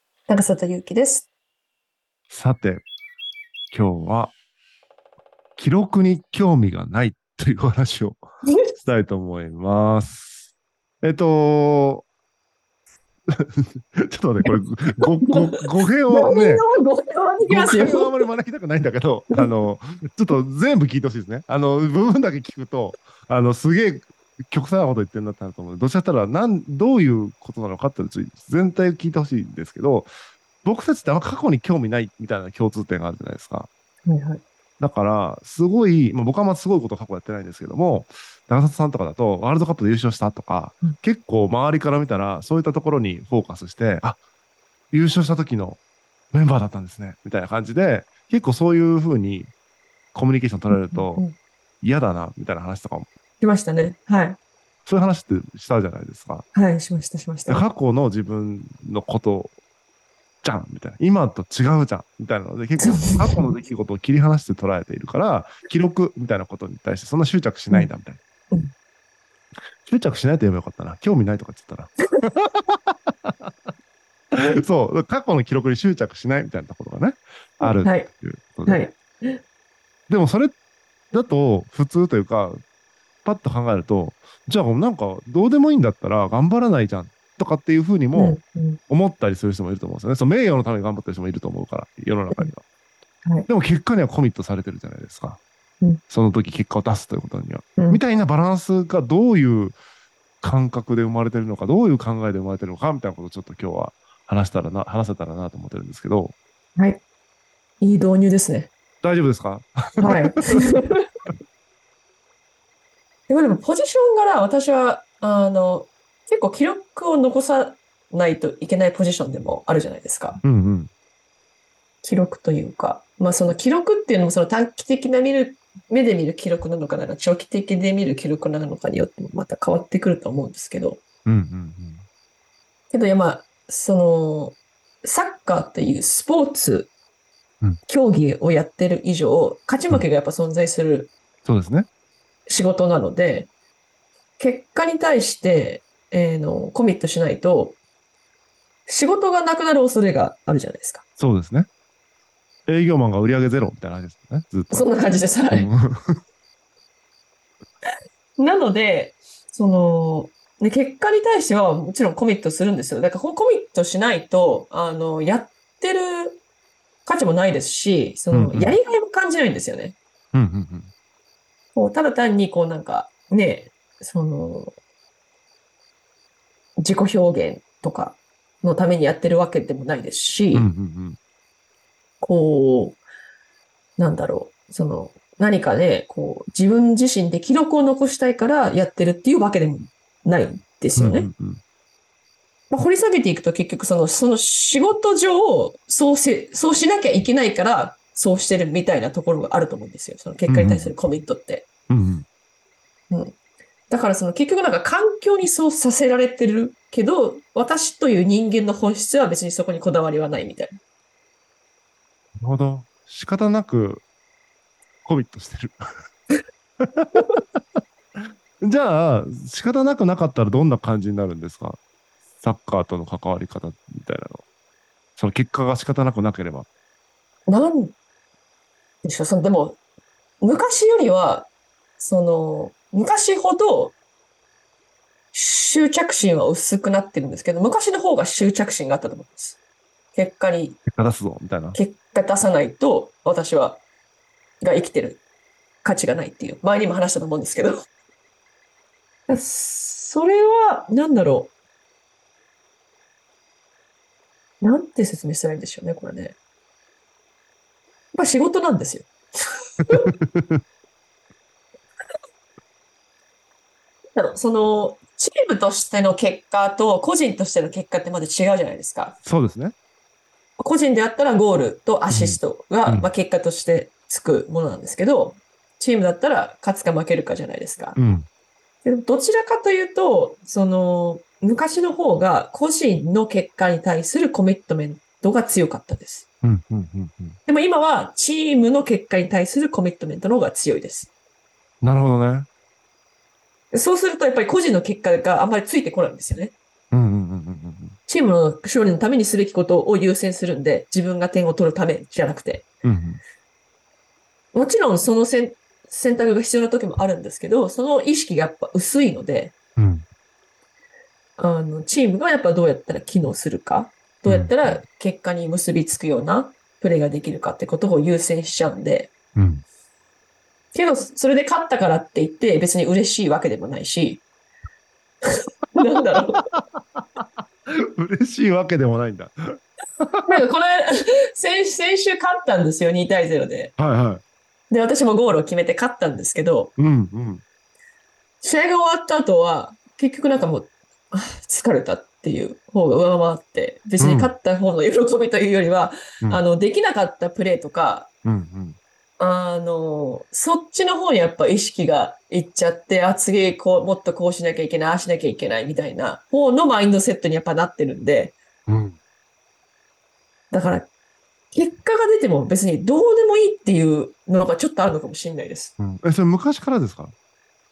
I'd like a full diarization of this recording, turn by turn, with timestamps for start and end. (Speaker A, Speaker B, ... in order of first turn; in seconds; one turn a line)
Speaker A: 0.3-1.3
Speaker B: 2.3-2.8
Speaker B: 3.7-4.3
Speaker B: 5.6-8.2
Speaker B: 8.8-10.4
Speaker B: 11.0-12.1
Speaker B: 13.4-16.6
Speaker A: 15.2-18.3
Speaker B: 17.4-30.1
Speaker B: 30.6-33.7
Speaker A: 34.0-34.4
Speaker B: 34.8-44.2
Speaker B: 44.9-45.8
Speaker B: 46.3-49.5
Speaker B: 50.1-51.2
Speaker A: 50.7-51.4
Speaker B: 51.8-53.1
Speaker A: 53.4-54.4
Speaker B: 54.9-56.4
Speaker A: 56.5-57.6
Speaker B: 57.5-59.5
Speaker B: 60.4-68.2
Speaker A: 62.8-63.5
Speaker B: 69.8-73.3
Speaker B: 74.3-78.8
Speaker A: 77.6-78.1
Speaker A: 78.7-79.4
Speaker B: 80.1-80.5
Speaker B: 81.1-82.6
Speaker B: 83.2-88.4
Speaker A: 88.1-88.8
Speaker B: 88.9-92.6
Speaker B: 93.5-95.4
Speaker B: 96.1-99.7
Speaker B: 100.4-106.3
Speaker A: 106.8-107.0
Speaker A: 107.8-108.7
Speaker B: 109.0-110.2
Speaker A: 110.0-111.0
Speaker A: 113.3-120.4
Speaker B: 120.4-120.9
Speaker A: 122.0-131.0
Speaker B: 131.2-132.0
Speaker A: 132.9-136.9
Speaker A: 137.9-141.1
Speaker B: 141.4-141.9
Speaker A: 142.5-143.5
Speaker A: 144.4-147.8
Speaker A: 148.9-151.0
Speaker B: 151.2-151.7
Speaker B: 152.7-154.9
Speaker A: 154.7-155.7
Speaker B: 155.5-156.2
Speaker A: 158.4-166.4
Speaker A: 167.1-170.0
Speaker B: 168.3-168.8
Speaker B: 170.3-170.9
Speaker A: 171.7-174.7
Speaker A: 176.8-180.7
Speaker B: 180.5-181.2
Speaker A: 182.2-183.0
Speaker A: 184.0-191.3
Speaker B: 190.9-191.6
Speaker A: 192.7-201.7
Speaker B: 200.5-200.9
Speaker B: 201.9-202.2
Speaker A: 203.9-210.8
Speaker B: 212.4-214.0
Speaker B: 215.0-215.8
Speaker B: 216.8-217.2
Speaker B: 218.6-221.8
Speaker B: 222.4-224.4
Speaker B: 225.2-226.7
Speaker A: 227.5-227.9
Speaker A: 229.0-229.8
Speaker A: 230.4-233.9
Speaker A: 235.3-239.6
Speaker A: 240.1-240.8
Speaker B: 240.9-241.8
Speaker A: 241.7-243.8
Speaker A: 244.6-245.2
Speaker A: 245.8-247.9
Speaker A: 249.3-251.5
Speaker A: 254.6-256.4
Speaker A: 258.1-259.1
Speaker B: 260.3-260.6
Speaker A: 264.1-269.2
Speaker B: 269.2-269.7
Speaker A: 270.6-277.9
Speaker B: 272.1-273.1
Speaker B: 277.9-278.2
Speaker A: 278.8-286.2
Speaker B: 286.4-287.4
Speaker A: 287.5-291.1
Speaker B: 291.8-292.5
Speaker A: 293.7-296.5
Speaker B: 296.9-297.9
Speaker A: 298.1-302.6
Speaker B: 302.8-303.2
Speaker A: 304.5-309.5
Speaker B: 309.8-310.0
Speaker A: 311.4-319.1
Speaker B: 314.2-314.6
Speaker B: 319.4-319.6
Speaker A: 320.7-324.2
Speaker A: 325.7-326.5
Speaker B: 326.6-327.2
Speaker B: 327.9-329.3
Speaker B: 330.0-330.4
Speaker A: 330.3-333.7
Speaker B: 333.8-334.2
Speaker A: 334.7-336.7
Speaker B: 336.8-337.4
Speaker A: 338.4-348.1
Speaker B: 344.0-344.3
Speaker B: 348.2-348.8
Speaker A: 349.2-358.4
Speaker B: 358.7-358.9
Speaker A: 360.5-360.9
Speaker A: 361.5-365.7
Speaker B: 365.8-367.1